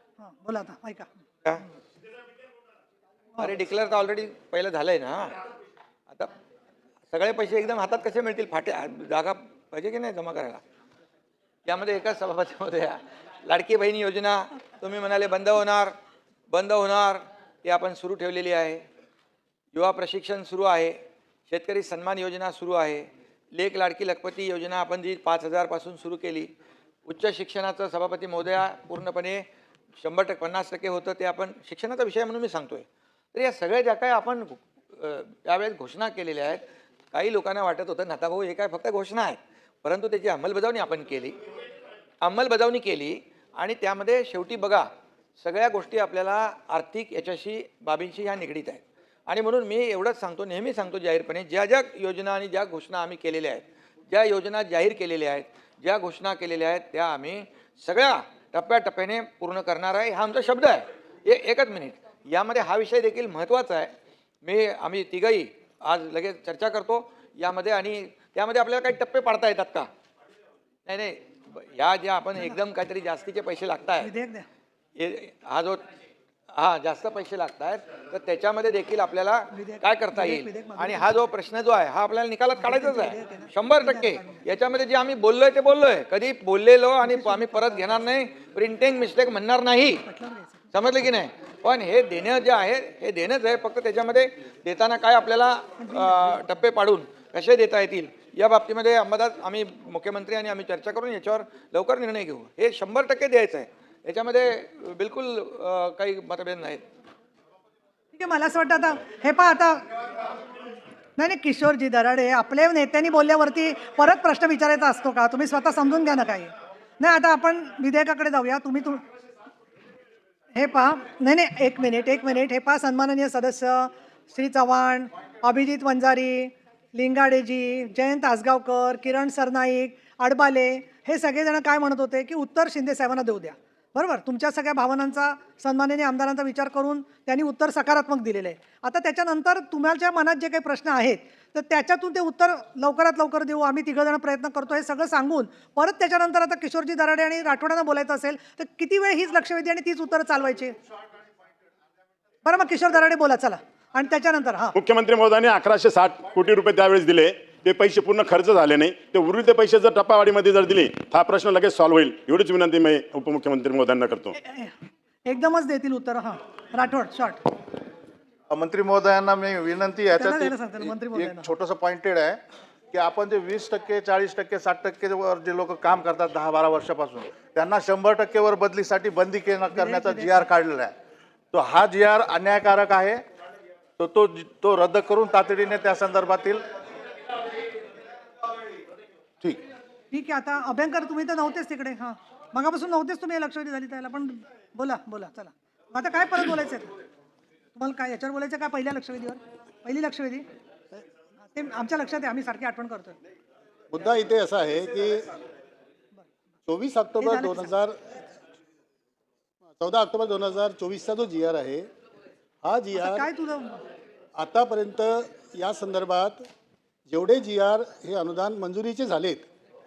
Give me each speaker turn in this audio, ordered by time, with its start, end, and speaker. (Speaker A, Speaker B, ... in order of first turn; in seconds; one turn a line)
Speaker A: 0.2-1.1
Speaker B: 3.4-5.4
Speaker B: 7.1-10.6
Speaker B: 11.7-15.9
Speaker B: 16.5-18.8
Speaker B: 19.7-21.0
Speaker B: 21.5-26.5
Speaker B: 27.1-29.4
Speaker B: 30.0-36.6
Speaker B: 37.1-41.4
Speaker B: 42.2-44.9
Speaker B: 45.4-63.9
Speaker B: 64.4-69.9
Speaker B: 70.9-74.1
Speaker A: 74.0-74.5
Speaker B: 75.0-75.8
Speaker B: 76.5-90.0
Speaker A: 79.5-81.1
Speaker A: 82.6-84.4
Speaker A: 87.0-87.8
Speaker A: 90.0-90.7
Speaker B: 90.7-106.8
Speaker A: 95.8-96.5
Speaker A: 108.1-109.8
Speaker A: 111.2-119.0
Speaker A: 120.5-150.8
Speaker A: 152.4-154.8
Speaker C: 154.7-164.3
Speaker A: 164.3-164.7
Speaker A: 165.3-167.4
Speaker D: 168.5-172.4
Speaker A: 170.2-171.5
Speaker D: 172.9-180.9
Speaker A: 179.7-180.4
Speaker D: 181.5-183.2
Speaker D: 184.0-186.6
Speaker A: 190.1-196.9
Speaker A: 197.8-200.4
Speaker A: 201.5-203.2
Speaker E: 203.9-205.3
Speaker E: 206.7-208.0
Speaker A: 207.2-207.7
Speaker E: 209.8-211.9
Speaker E: 212.6-213.3
Speaker A: 212.9-213.8
Speaker E: 214.4-216.5
Speaker E: 217.1-219.5